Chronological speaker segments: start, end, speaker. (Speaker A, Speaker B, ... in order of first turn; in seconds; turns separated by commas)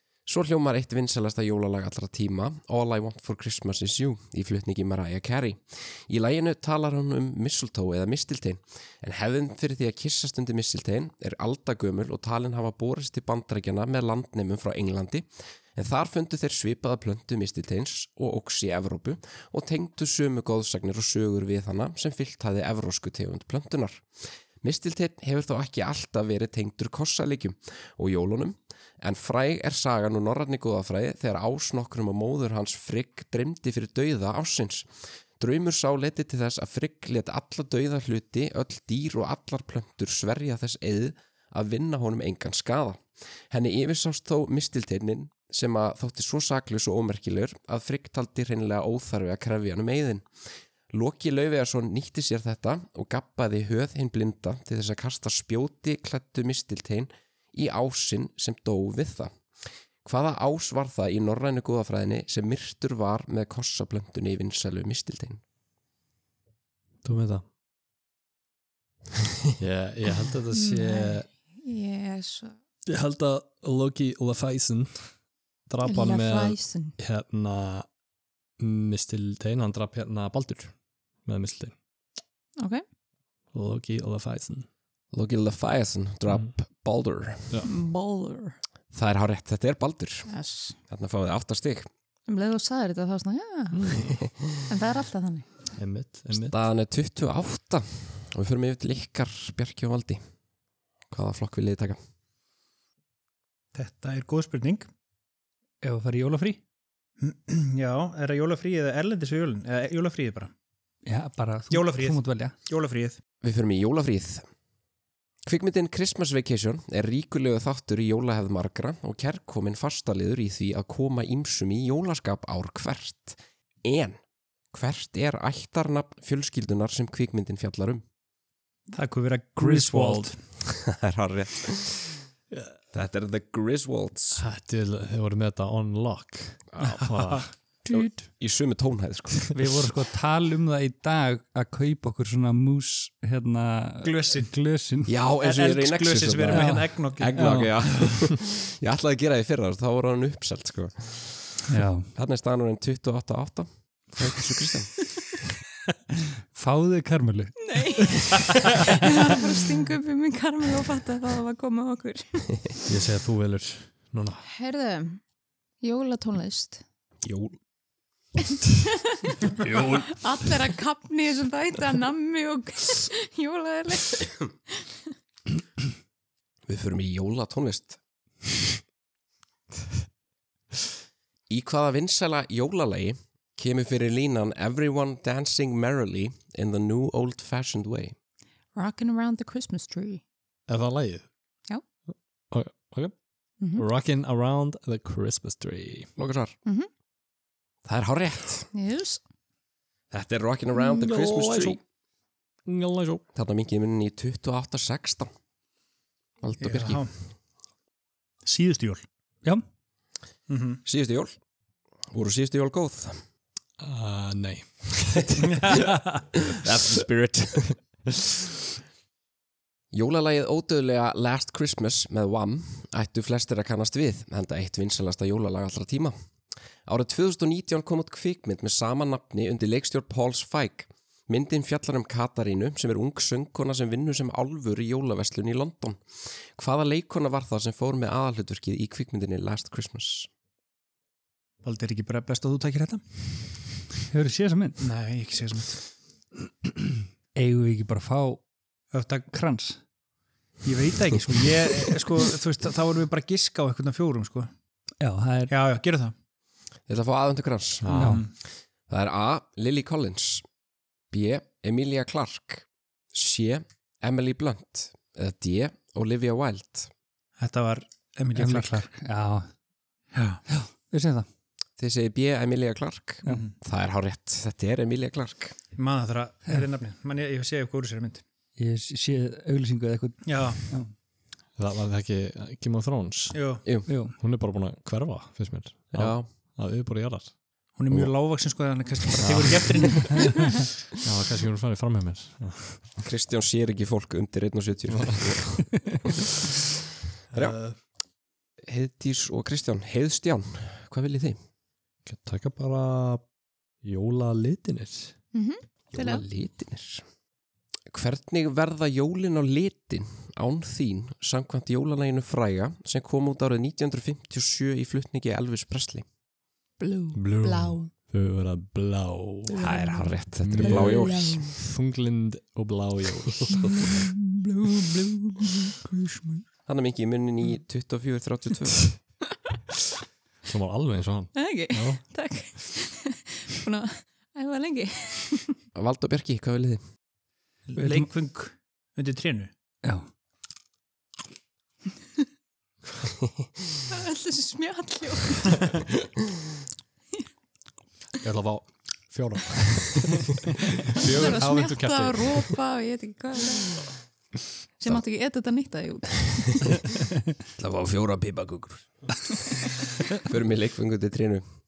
Speaker A: 0.3-24.1, Speaker A: 24.6-34.9, Speaker A: 35.4-50.3, Speaker A: 50.9-59.4, Speaker A: 60.0-65.4, Speaker B: 67.0-67.4, Speaker B: 69.6-71.3, Speaker C: 70.5-72.6, Speaker B: 72.9-75.2, Speaker B: 75.7-77.9, Speaker C: 75.8-77.0, Speaker B: 78.6-81.8, Speaker B: 83.5-84.7, Speaker A: 85.1-87.6, Speaker C: 87.6-88.6, Speaker A: 88.9-90.3, Speaker C: 90.3-90.8, Speaker A: 90.9-91.9, Speaker C: 92.3-93.9, Speaker B: 93.7-94.3, Speaker C: 94.7-95.5, Speaker B: 95.8-96.6, Speaker A: 96.3-100.2, Speaker A: 101.1-102.0, Speaker D: 103.7-104.9, Speaker E: 105.8-106.6, Speaker D: 107.2-110.5, Speaker E: 111.1-112.5, Speaker D: 111.7-113.2, Speaker A: 113.4-114.4, Speaker A: 115.4-124.2, Speaker A: 124.7-128.0, Speaker D: 128.9-130.4, Speaker B: 129.6-130.3, Speaker A: 130.6-132.2, Speaker A: 132.9-134.4, Speaker B: 134.4-137.5, Speaker D: 137.1-137.4, Speaker A: 137.9-139.5, Speaker E: 139.5-145.1, Speaker D: 144.0-144.5, Speaker A: 145.1-151.5, Speaker D: 145.4-147.4, Speaker E: 146.5-147.7, Speaker B: 147.4-147.6, Speaker E: 151.7-152.1, Speaker A: 152.2-155.0, Speaker E: 156.5-158.4, Speaker C: 157.6-162.8, Speaker B: 162.9-164.4, Speaker C: 164.4-165.2, Speaker C: 165.8-166.8, Speaker A: 167.2-167.5, Speaker C: 168.7-169.3, Speaker B: 169.6-170.2, Speaker C: 169.9-174.5, Speaker A: 176.7-178.0, Speaker A: 181.5-188.2, Speaker C: 188.7-190.2, Speaker B: 190.7-191.3, Speaker B: 192.1-196.1, Speaker C: 193.6-193.8, Speaker A: 196.2-196.6, Speaker A: 197.8-198.7, Speaker C: 198.7-199.2, Speaker A: 200.1-201.8, Speaker B: 200.9-201.8, Speaker B: 202.7-203.2, Speaker A: 203.3-205.3, Speaker A: 206.4-207.1, Speaker D: 206.6-207.1, Speaker D: 208.4-209.0, Speaker D: 210.5-210.8, Speaker A: 210.8-211.3, Speaker A: 212.1-213.2, Speaker B: 213.8-215.8, Speaker A: 216.5-217.8, Speaker A: 219.9-226.2, Speaker A: 226.9-240.3, Speaker D: 241.6-243.0, Speaker E: 244.1-244.8, Speaker D: 244.8-245.8, Speaker E: 247.3-248.4, Speaker D: 248.9-249.3, Speaker E: 249.3-249.8, Speaker D: 250.6-254.5, Speaker E: 255.0-255.5, Speaker D: 255.5-256.1, Speaker A: 256.9-257.9, Speaker B: 257.8-258.2, Speaker E: 257.9-258.2, Speaker D: 257.9-258.3, Speaker A: 258.9-260.4, Speaker A: 261.1-266.9, Speaker D: 267.4-268.9, Speaker E: 268.4-269.5, Speaker D: 270.1-270.4, Speaker E: 270.5-271.3, Speaker A: 271.8-275.6, Speaker D: 273.3-273.5, Speaker D: 275.8-278.2, Speaker E: 278.6-280.9, Speaker D: 280.2-280.6, Speaker B: 281.6-287.4, Speaker D: 283.3-283.6, Speaker E: 283.9-284.2, Speaker A: 285.9-286.3, Speaker D: 287.8-290.5, Speaker B: 289.2-290.2, Speaker B: 291.0-293.0, Speaker A: 293.0-296.1, Speaker B: 294.9-295.6, Speaker B: 297.3-297.8, Speaker A: 298.6-301.4, Speaker B: 302.1-303.2, Speaker B: 303.8-305.1, Speaker C: 305.3-306.2, Speaker A: 305.9-307.0, Speaker A: 307.9-316.1, Speaker C: 316.8-317.9, Speaker B: 317.1-319.7, Speaker C: 319.5-321.5, Speaker A: 319.6-321.5, Speaker B: 320.4-324.0, Speaker C: 323.5-325.8, Speaker A: 326.7-329.0, Speaker B: 330.4-332.0, Speaker C: 331.3-335.6, Speaker A: 335.8-336.8, Speaker D: 337.7-339.5, Speaker E: 337.8-338.1, Speaker C: 343.9-345.7, Speaker B: 348.2-352.6, Speaker C: 351.0-353.9, Speaker C: 354.8-356.8, Speaker A: 357.6-361.4